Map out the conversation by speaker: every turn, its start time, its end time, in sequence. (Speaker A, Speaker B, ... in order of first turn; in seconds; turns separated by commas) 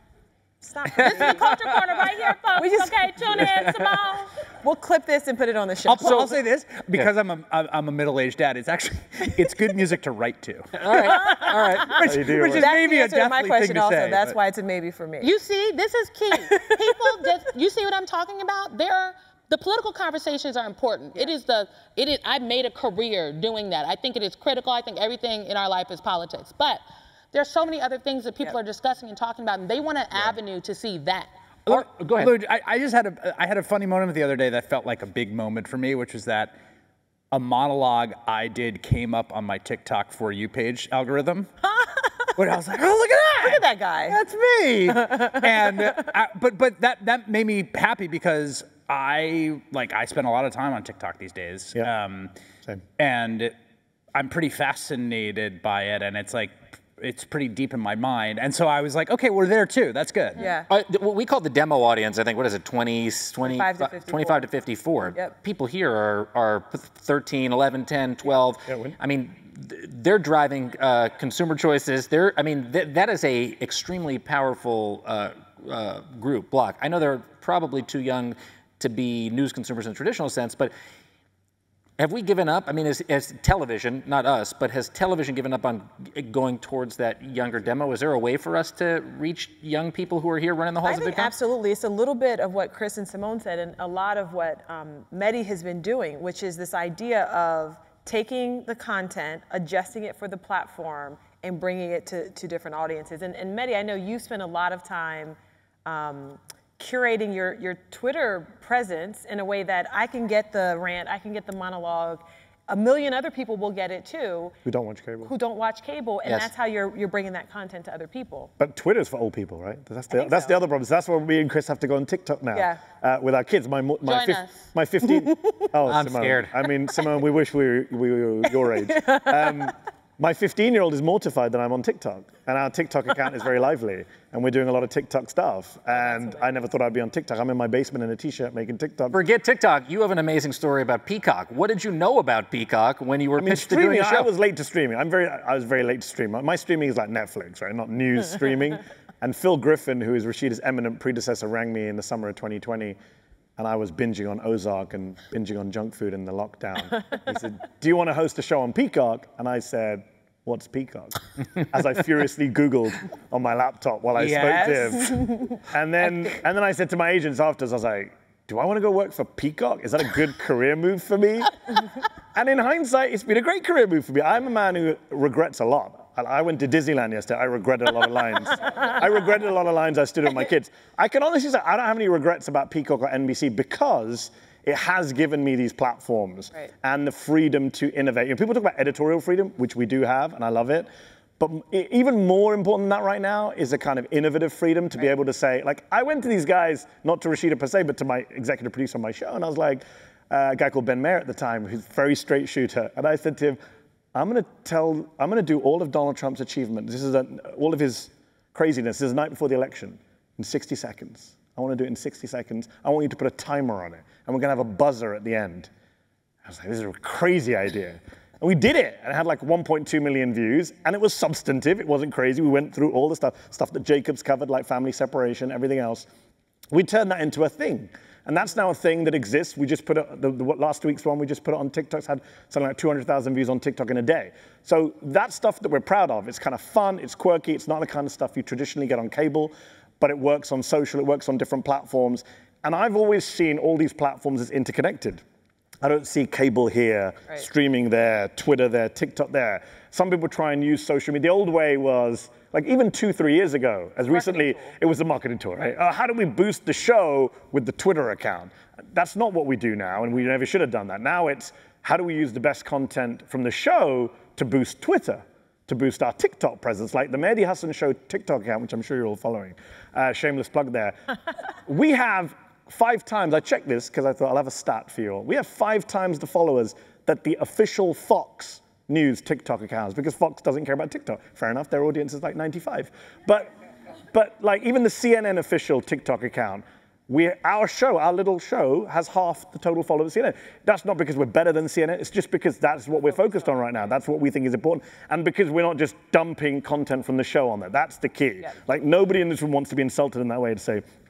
Speaker A: 0.6-6.4, Speaker B: 0.9-1.3, Speaker C: 1.3-2.9, Speaker D: 5.8-14.4, Speaker B: 10.8-12.1, Speaker A: 11.0-11.9, Speaker E: 12.0-12.7, Speaker A: 12.6-15.3, Speaker C: 15.2-31.3, Speaker A: 16.4-17.3, Speaker D: 31.7-36.6, Speaker B: 31.7-32.3, Speaker D: 37.3-41.5, Speaker A: 41.8-42.1, Speaker D: 42.4-52.3, Speaker A: 43.4-44.2, Speaker A: 44.9-45.7, Speaker D: 53.0-53.5, Speaker D: 54.1-60.5, Speaker A: 60.4-60.7, Speaker B: 60.7-80.7, Speaker A: 63.4-64.5, Speaker E: 68.7-69.0, Speaker B: 82.0-91.3, Speaker A: 90.8-114.6, Speaker E: 114.7-115.3, Speaker A: 115.2-118.5, Speaker E: 118.6-139.2, Speaker A: 120.1-120.6, Speaker A: 122.5-122.8, Speaker C: 124.0-124.7, Speaker B: 125.9-126.5, Speaker B: 139.1-144.3, Speaker E: 143.4-153.0, Speaker E: 153.6-171.7, Speaker D: 164.2-165.3, Speaker E: 172.3-190.9, Speaker E: 191.4-203.6, Speaker E: 204.2-215.7, Speaker E: 216.4-226.1, Speaker E: 226.7-245.2, Speaker E: 245.8-271.0, Speaker A: 254.1-254.7, Speaker E: 271.6-283.5, Speaker E: 284.1-300.8